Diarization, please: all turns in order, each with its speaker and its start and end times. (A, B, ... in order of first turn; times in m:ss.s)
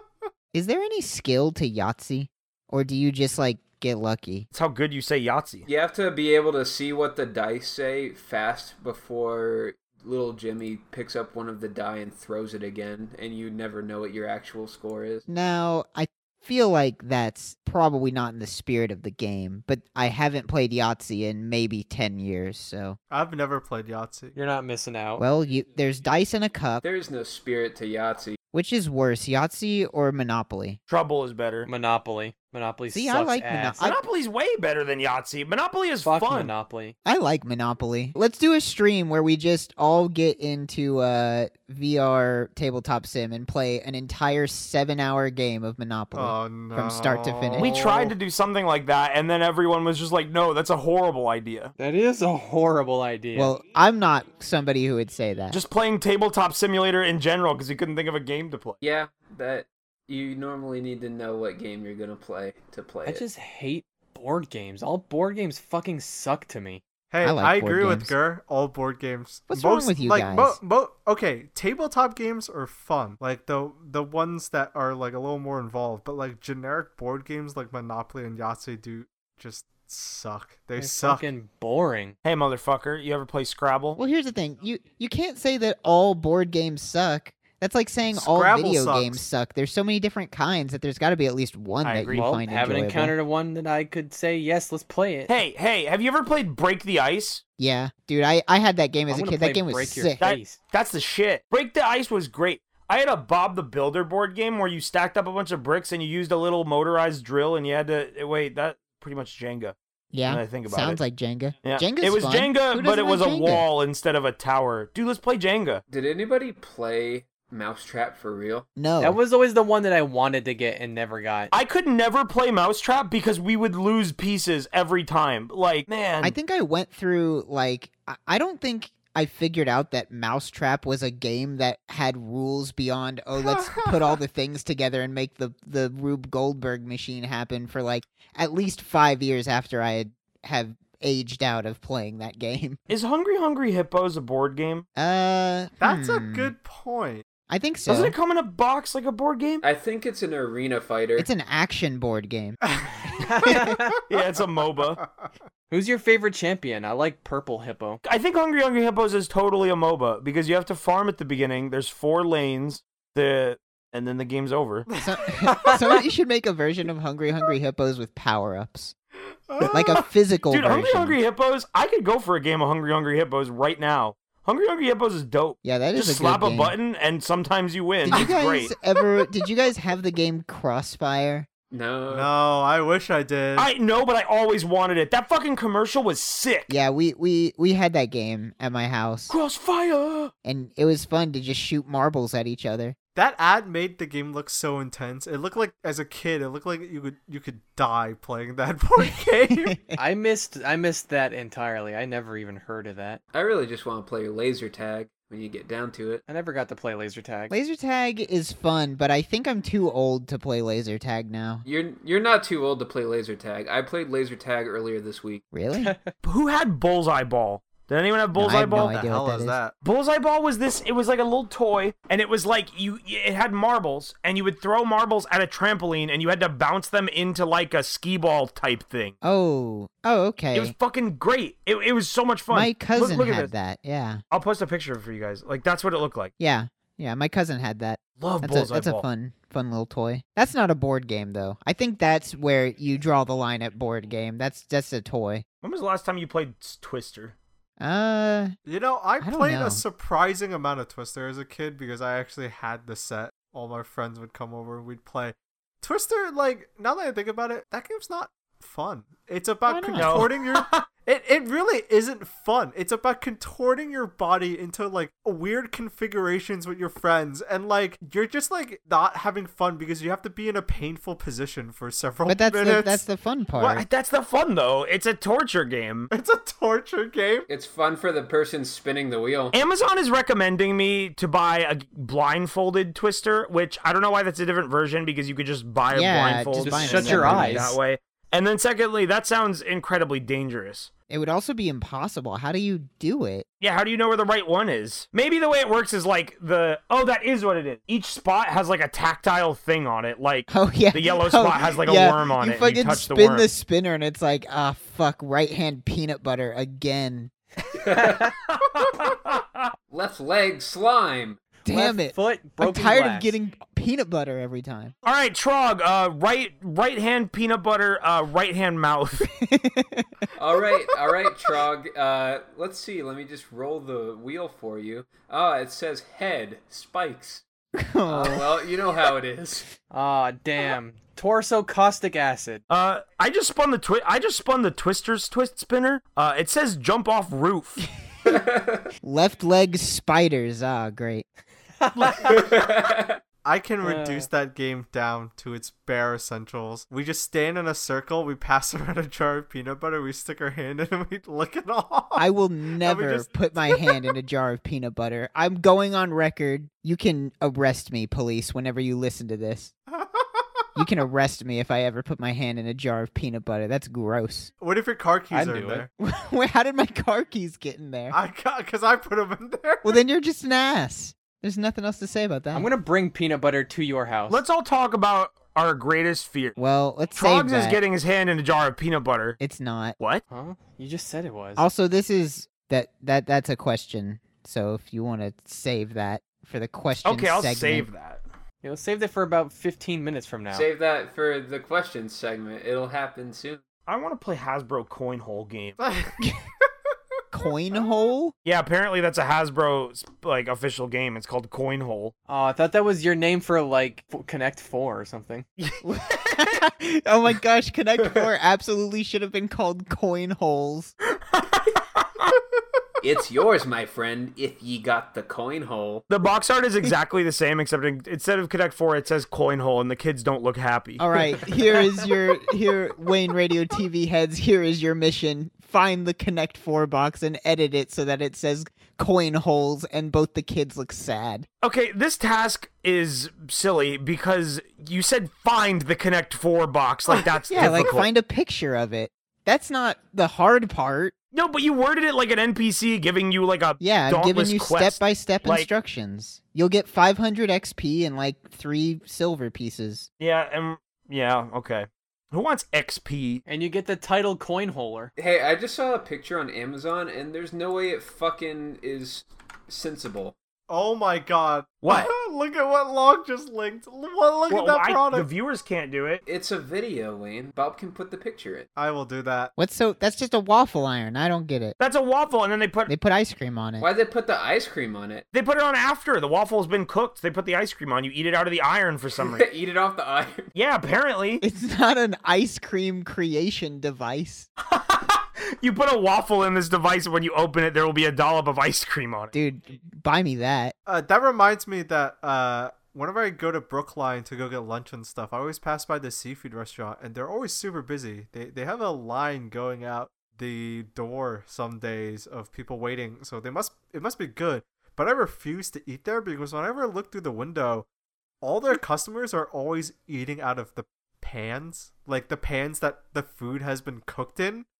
0:00.5-0:04.5 A
0:04.5-0:05.7 B
0:05.6-0:15.2 C
0:15.3-0:23.0 A
0:23.1-0:24.4 D
0:24.3-0:25.2 E
0:25.2-0:26.8 A
0:26.8-0:28.4 C
0:28.5-0:30.8 A
0:30.9-0:31.7 B
0:31.6-0:33.8 E
0:32.9-0:34.0 A
0:33.8-0:36.5 B
0:36.0-0:36.9 E
0:37.0-0:47.8 A
0:46.1-0:48.1 D
0:47.6-0:51.7 B
0:51.8-0:53.6 E
0:53.3-0:55.6 A
0:55.5-0:58.8 B
0:58.8-1:03.2 C
1:03.0-1:06.8 E
1:07.1-1:21.3 D
1:07.2-1:08.1 A
1:09.5-1:10.6 A
1:20.8-1:22.2 E
1:22.2-1:24.0 B
1:24.0-1:33.2 A
1:28.1-1:29.2 D
1:31.8-1:32.3 B
1:32.1-1:35.4 E
1:35.3-1:37.4 B
1:37.6-1:40.2 A
1:39.1-1:40.6 E
1:40.2-1:49.7 B
1:50.1-1:53.6 A
1:50.3-1:51.0 B
1:51.6-1:55.8 B
1:55.9-1:58.7 C
1:58.8-1:59.2 A
1:59.0-2:01.5 E
2:01.5-2:06.4 B
2:06.2-2:22.8 A
2:13.4-2:14.2 D
2:22.9-2:24.8 B
2:25.0-2:26.5 A
2:25.8-2:27.2 D
2:27.5-2:28.1 A
2:27.9-2:29.6 B
2:29.6-2:31.3 C
2:31.2-2:32.6 A
2:32.7-2:33.6 D
2:33.2-2:34.0 E
2:33.4-2:33.7 A
2:34.1-2:35.0 B
2:34.8-2:35.3 D
2:35.7-2:38.0 E
2:38.0-2:44.9 B
2:44.9-2:46.0 D
2:45.0-2:48.9 A
2:49.5-2:50.0 D
2:49.7-2:51.2 A
2:50.5-2:58.7 B
2:55.6-2:56.8 A
2:58.0-3:01.5 A
3:01.7-3:02.3 C
3:02.1-3:03.7 D
3:03.6-3:06.8 B
3:06.7-3:09.3 A
3:09.3-3:10.3 B
3:10.4-3:13.0 A
3:13.1-3:19.8 D
3:19.5-3:20.0 A
3:20.0-3:23.2 E
3:23.3-3:26.2 C
3:26.3-3:27.6 E
3:27.5-3:31.6 A
3:31.6-3:35.4 C
3:35.5-3:35.9 A
3:35.7-3:36.1 E
3:36.2-3:39.0 B
3:38.3-3:39.6 A
3:38.7-3:39.7 D
3:39.8-3:49.1 B
3:49.2-3:50.7 A
3:50.5-3:53.5 B
3:52.5-3:54.2 A
3:54.3-3:56.3 B
3:56.4-4:05.4 A
3:58.2-3:59.0 B
4:05.6-4:07.3 B
4:07.8-4:08.5 A
4:08.6-4:33.0 D
4:09.2-4:09.8 A
4:19.7-4:20.3 A
4:20.0-4:20.8 B
4:32.2-4:33.8 A
4:33.6-4:36.1 B
4:36.1-4:37.5 D
4:37.5-4:39.6 C
4:39.5-4:50.9 B
4:45.9-4:47.8 A
4:46.6-4:47.8 E
4:51.1-4:53.4 A
4:53.6-5:03.5 B
5:00.5-5:07.3 A
5:07.7-5:08.3 C
5:08.0-5:08.3 E
5:08.5-5:09.7 B
5:09.9-5:11.5 C
5:11.6-5:14.9 A
5:11.6-5:13.3 E
5:15.0-5:19.3 B
5:19.4-5:20.3 A
5:20.4-5:27.4 C
5:27.8-5:28.5 A
5:28.1-5:29.7 C
5:29.9-5:32.6 E
5:32.7-5:37.8 B
5:38.2-5:38.9 C
5:39.0-5:41.2 A
5:41.8-5:42.4 E
5:42.0-5:42.3 B
5:42.2-5:43.2 C
5:43.4-5:52.2 D
5:43.8-5:44.3 E
5:52.2-5:59.7 A
5:52.8-5:53.9 D
5:59.9-6:00.8 D
6:00.8-6:04.5 A
6:04.6-6:05.9 D
6:05.3-6:05.9 E
6:06.0-6:08.2 A
6:08.1-6:10.0 D
6:09.8-6:12.7 A
6:12.5-6:14.4 E
6:14.3-6:16.6 B
6:16.6-6:17.8 A
6:17.2-6:19.4 B
6:19.4-6:20.0 A
6:20.3-6:21.6 E
6:21.6-6:27.9 A
6:27.0-6:28.2 B
6:28.6-6:30.7 E
6:30.5-6:33.6 C
6:33.9-6:35.8 B
6:35.8-6:36.2 D
6:37.3-6:38.3 A
6:38.4-6:42.1 B
6:42.3-6:45.4 E
6:45.6-6:46.6 B
6:45.8-6:50.9 A
6:51.3-6:52.3 B
6:53.0-6:56.0 C
6:56.1-7:01.1 B
7:01.0-7:11.4 A
7:11.6-7:18.1 B
7:17.1-7:17.9 D
7:17.5-7:21.1 A
7:21.3-7:25.7 B
7:23.8-7:30.1 A
7:30.2-7:33.4 B
7:33.4-7:35.1 E
7:35.2-7:40.4 C
7:40.7-7:45.3 D
7:41.8-7:42.1 B
7:44.5-7:46.2 B
7:46.2-7:48.7 C
7:48.8-7:49.5 D
7:49.6-7:51.8 A
7:51.8-7:52.9 B
7:52.9-7:53.9 A
7:53.8-7:55.2 C
7:55.3-7:59.4 B
7:59.2-8:00.5 C
8:00.5-8:01.4 B
8:01.4-8:04.5 A
8:04.7-8:09.3 B
8:09.3-8:10.7 A
8:10.8-8:27.9 D
8:28.4-8:34.7 D